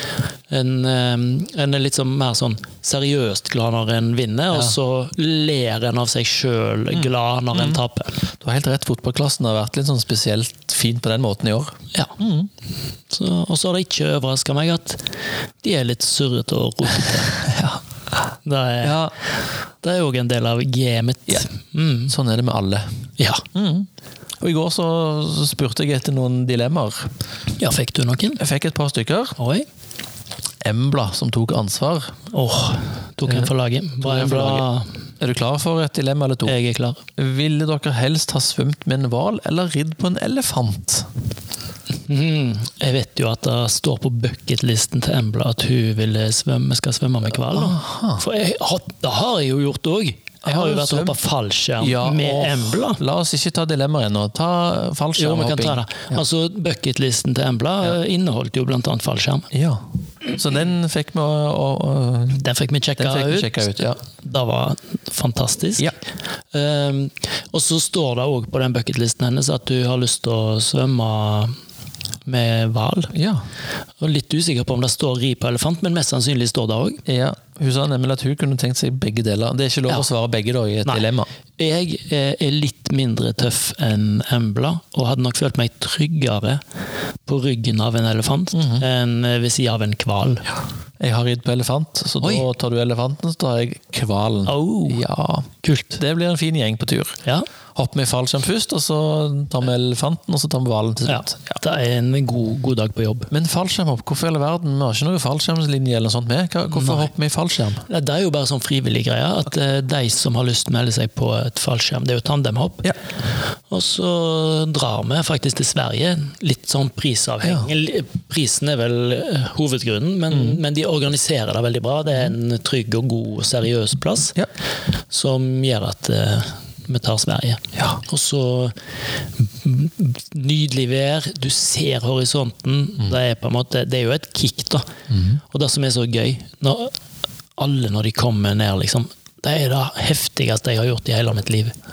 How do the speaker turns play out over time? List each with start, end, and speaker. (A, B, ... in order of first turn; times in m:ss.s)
0:00.5-0:08.2 A
0:06.9-0:07.8 B
0:08.4-0:12.5 B
0:13.1-0:15.0 A
0:15.6-0:17.4 A
0:17.4-0:17.8 B
0:18.4-0:19.0 A
0:18.8-0:19.1 B
0:19.8-0:22.1 A
0:22.1-0:22.9 B
0:23.2-0:23.4 A
0:23.5-0:23.9 B
0:24.4-0:27.1 B
0:27.6-0:28.4 A
0:28.4-0:29.4 B
0:29.4-0:29.7 A
0:30.6-0:32.1 B
0:32.3-0:35.0 A
0:33.2-0:34.7 B
0:35.2-0:36.6 B
0:36.4-0:37.0 A
0:37.2-0:41.1 B
0:42.1-0:53.0 A
0:47.3-0:48.2 B
0:50.4-0:51.2 B
0:51.8-0:56.2 B
0:55.2-0:59.5 A
0:59.5-1:02.4 B
1:02.4-1:05.9 A
1:03.0-1:04.0 B
1:06.5-1:11.5 A
1:12.3-1:13.1 A
1:13.1-1:13.4 B
1:14.0-1:17.0 A
1:17.1-1:21.3 B
1:21.6-1:26.6 A
1:27.2-1:30.5 A
1:28.5-1:28.8 B
1:31.0-1:37.2 B
1:32.2-1:32.5 A
1:34.5-1:35.0 A
1:35.6-1:36.0 A
1:37.8-1:41.6 B
1:41.1-1:43.3 A
1:43.3-1:47.8 B
1:46.7-1:47.1 A
1:47.9-1:52.9 A
1:53.7-2:04.4 A
1:57.4-1:57.7 B
2:00.3-2:00.6 B
2:05.1-2:08.7 A
2:09.4-2:14.9 A
2:15.1-2:15.4 B
2:15.5-2:16.9 A
2:17.6-2:21.8 A